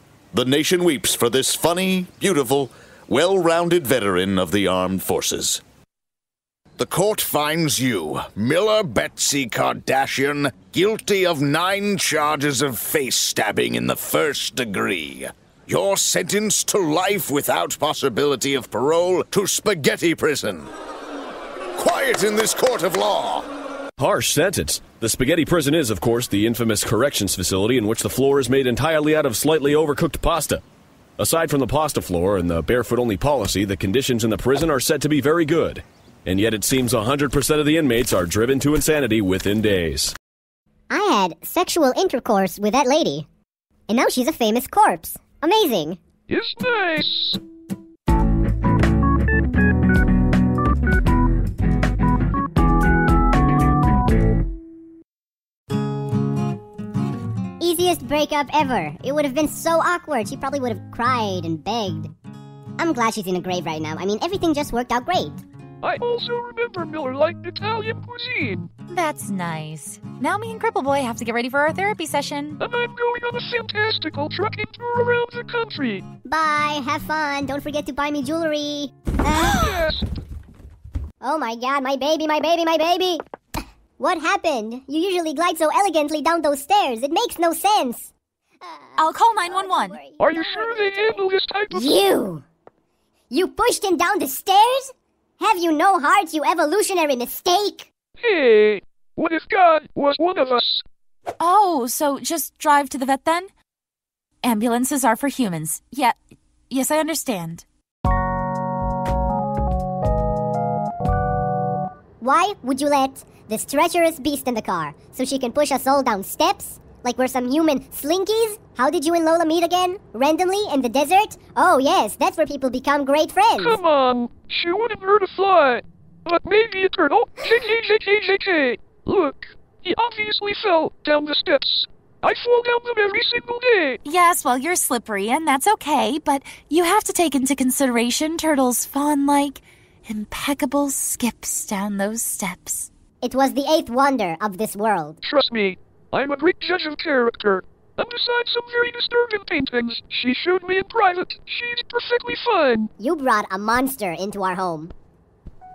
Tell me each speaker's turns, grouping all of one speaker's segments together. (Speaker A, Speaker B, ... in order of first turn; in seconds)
Speaker A: 0.3-5.6
Speaker B: 6.8-20.6, 21.8-23.4
Speaker C: 24.0-30.6, 31.2-40.1
Speaker D: 40.9-43.2, 43.9-46.0, 57.6-62.1, 62.8-65.4, 76.2-79.6, 81.2-83.2, 84.0-88.1, 88.6-92.4, 93.3-97.9, 112.2-123.8, 143.2-145.2, 153.0-154.9
Speaker E: 46.3-47.4, 65.8-68.7, 72.6-76.0, 79.7-80.0, 90.2-91.9, 98.2-100.8, 123.6-134.0, 145.2-152.9
Speaker F: 68.9-72.6, 79.3-79.9, 89.0-90.1, 101.4-103.5, 104.4-106.2, 106.7-107.6, 134.0-142.9